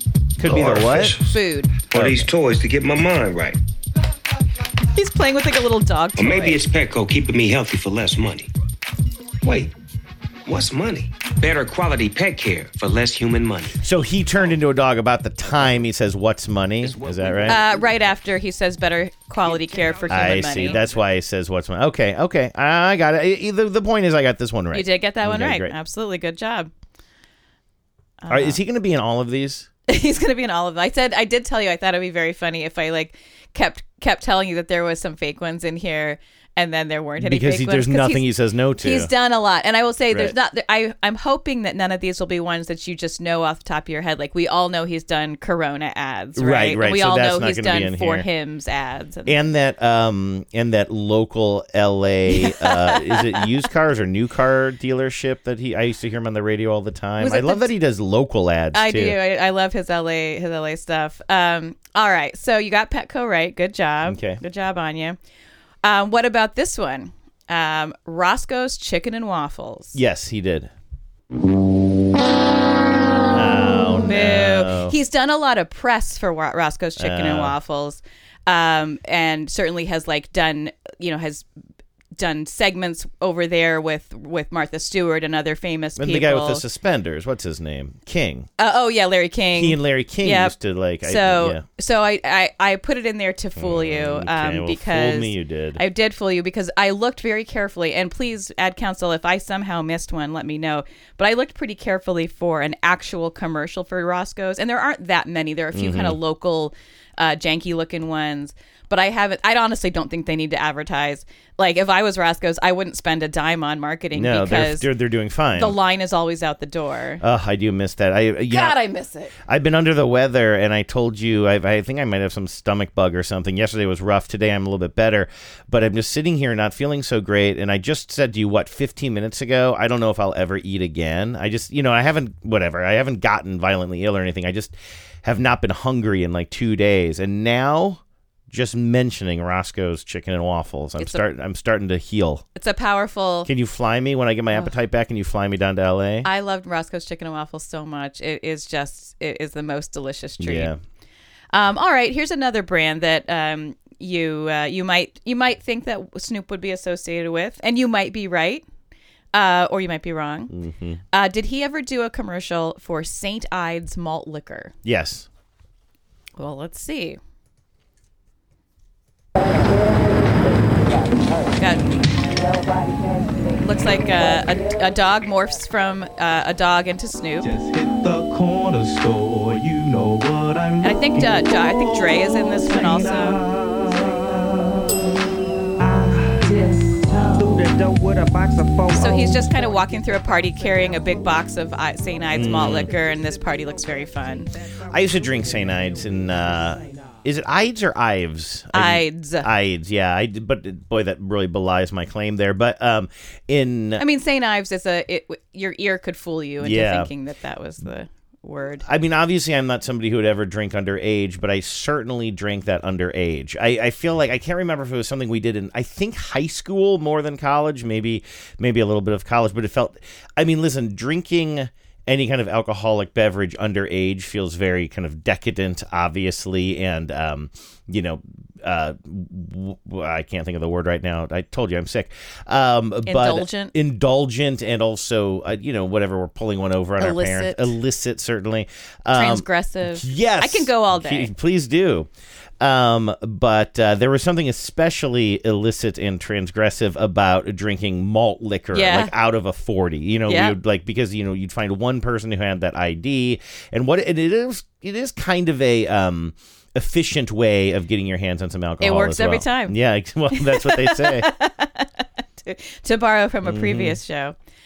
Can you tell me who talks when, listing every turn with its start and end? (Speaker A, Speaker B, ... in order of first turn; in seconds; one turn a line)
Speaker A: 0.4-1.2
Speaker B: 0.4-1.4
Speaker C: 1.2-1.7
Speaker B: 1.9-3.6
Speaker A: 1.9-2.3
Speaker C: 4.9-6.6
Speaker B: 6.2-8.5
Speaker B: 9.4-9.7
Speaker B: 10.4-13.8
Speaker A: 13.8-17.6
Speaker B: 16.8-18.1
Speaker C: 17.4-20.8
Speaker B: 19.4-20.9
Speaker A: 20.1-25.7
Speaker C: 24.7-26.7
Speaker C: 28.2-28.6
Speaker A: 28.3-29.7
Speaker C: 29.9-49.4
Speaker A: 37.2-39.1
Speaker A: 46.4-48.3
Speaker A: 49.2-59.2
Speaker C: 52.3-53.5
Speaker C: 57.2-57.7
Speaker C: 58.7-65.2
Speaker A: 64.0-64.4
Speaker C: 65.8-70.0
Speaker A: 69.9-70.7
Speaker A: 73.3-75.0
Speaker C: 74.0-81.5
Speaker A: 77.0-77.5
Speaker C: 82.2-86.6
Speaker A: 86.0-88.5
Speaker C: 88.6-114.9
Speaker A: 89.5-91.6
Speaker A: 93.5-95.8
Speaker A: 105.7-106.2
Speaker A: 114.1-115.8
Speaker C: 115.5-117.2
Speaker A: 117.2-118.8
Speaker C: 118.5-119.3
Speaker A: 119.5-142.4
Speaker C: 141.0-141.2
Speaker C: 142.6-143.5
Speaker A: 143.4-146.3
Speaker C: 146.2-150.7
Speaker A: 150.4-150.8
Speaker C: 151.5-158.6
Speaker C: 159.3-160.5
Speaker A: 160.5-161.0
Speaker C: 161.1-164.7
Speaker A: 164.8-165.3
Speaker C: 166.4-167.2
Speaker C: 171.6-171.9
Speaker C: 173.6-177.5
Speaker D: 177.4-184.4
Speaker C: 180.8-183.4
Speaker D: 185.8-187.7
Speaker B: 188.0-188.5
Speaker C: 188.9-194.5
Speaker A: 192.3-192.9
Speaker A: 194.9-204.0
Speaker C: 198.7-199.5
Speaker C: 204.0-208.8
Speaker A: 206.6-207.1
Speaker A: 208.8-242.1
Speaker C: 233.1-233.7
Speaker C: 237.0-237.7
Speaker C: 239.1-241.3
Speaker A: 242.6-261.3
Speaker C: 248.7-249.1
Speaker C: 250.3-250.6
Speaker C: 258.8-259.8
Speaker C: 260.3-264.3
Speaker A: 263.4-264.0